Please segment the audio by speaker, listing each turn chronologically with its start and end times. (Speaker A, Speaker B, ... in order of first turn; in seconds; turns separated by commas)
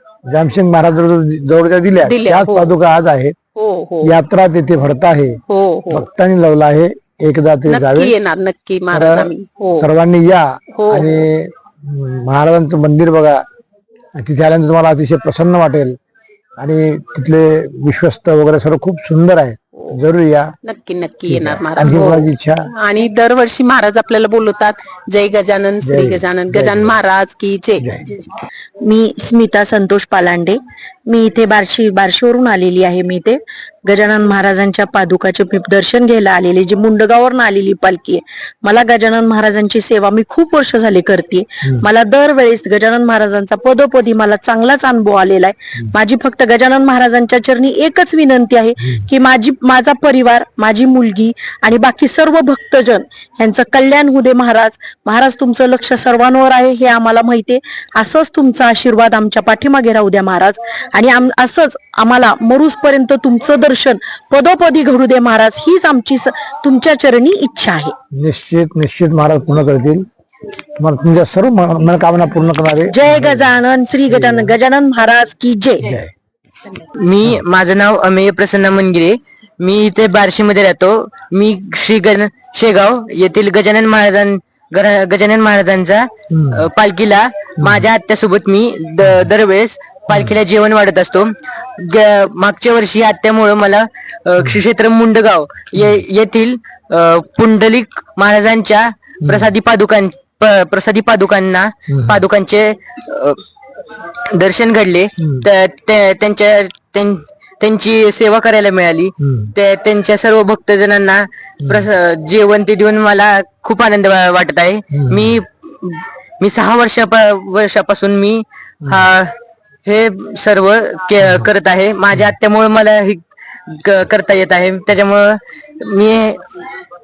Speaker A: 0.3-3.4, Speaker B: 2.0-2.8, Speaker B: 3.5-4.1, Speaker A: 4.0-5.4, Speaker B: 5.5-6.1, Speaker A: 5.9-8.2, Speaker B: 7.7-9.9, Speaker A: 8.9-13.4, Speaker B: 10.7-11.2, Speaker A: 14.2-16.0, Speaker A: 16.6-20.5, Speaker B: 20.6-27.9, Speaker A: 21.3-22.7, Speaker A: 25.8-26.9, Speaker A: 27.8-28.1, Speaker C: 28.9-67.9, Speaker A: 68.1-70.1, Speaker A: 70.8-73.6, Speaker C: 72.9-75.9, Speaker A: 74.1-74.5, Speaker A: 75.8-76.1, Speaker D: 77.0-103.4, Speaker A: 86.3-86.7, Speaker A: 87.6-87.9, Speaker A: 89.0-89.3, Speaker A: 90.1-90.4, Speaker A: 95.8-96.0, Speaker A: 99.2-99.5, Speaker A: 101.9-102.2, Speaker D: 104.3-126.4, Speaker A: 105.2-105.5, Speaker A: 109.2-109.5, Speaker A: 114.9-115.4, Speaker A: 121.2-121.5